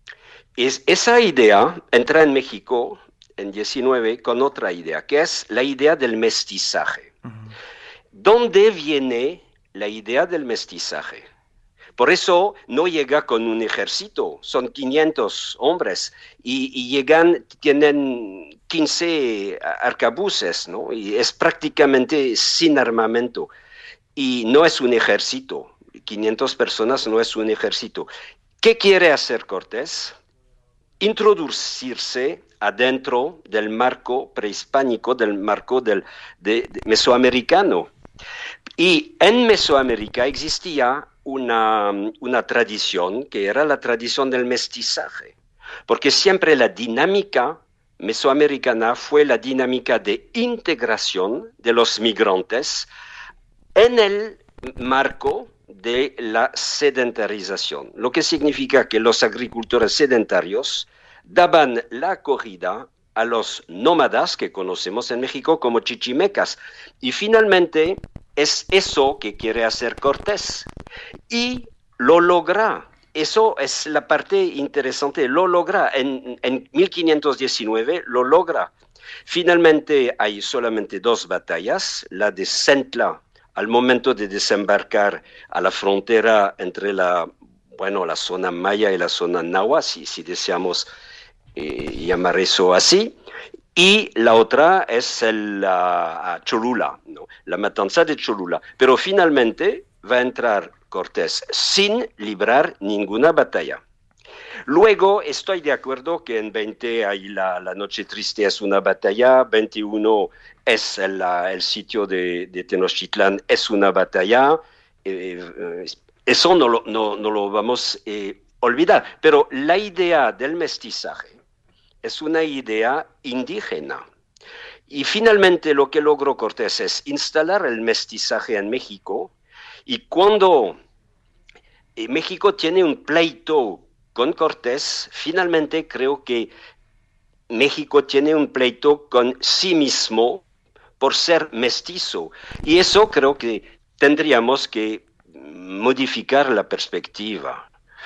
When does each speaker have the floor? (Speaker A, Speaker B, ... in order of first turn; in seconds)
Speaker A: 0.6-7.1, 8.1-11.2, 12.0-23.5, 24.1-28.1, 28.6-30.1, 31.0-37.9, 38.8-45.3, 45.9-52.9, 53.7-70.7, 71.3-78.7, 79.2-90.9, 91.5-93.2, 93.7-103.8, 104.7-121.4, 122.0-124.0, 124.9-129.3, 129.8-130.8, 131.9-136.5, 137.5-140.4, 141.0-147.7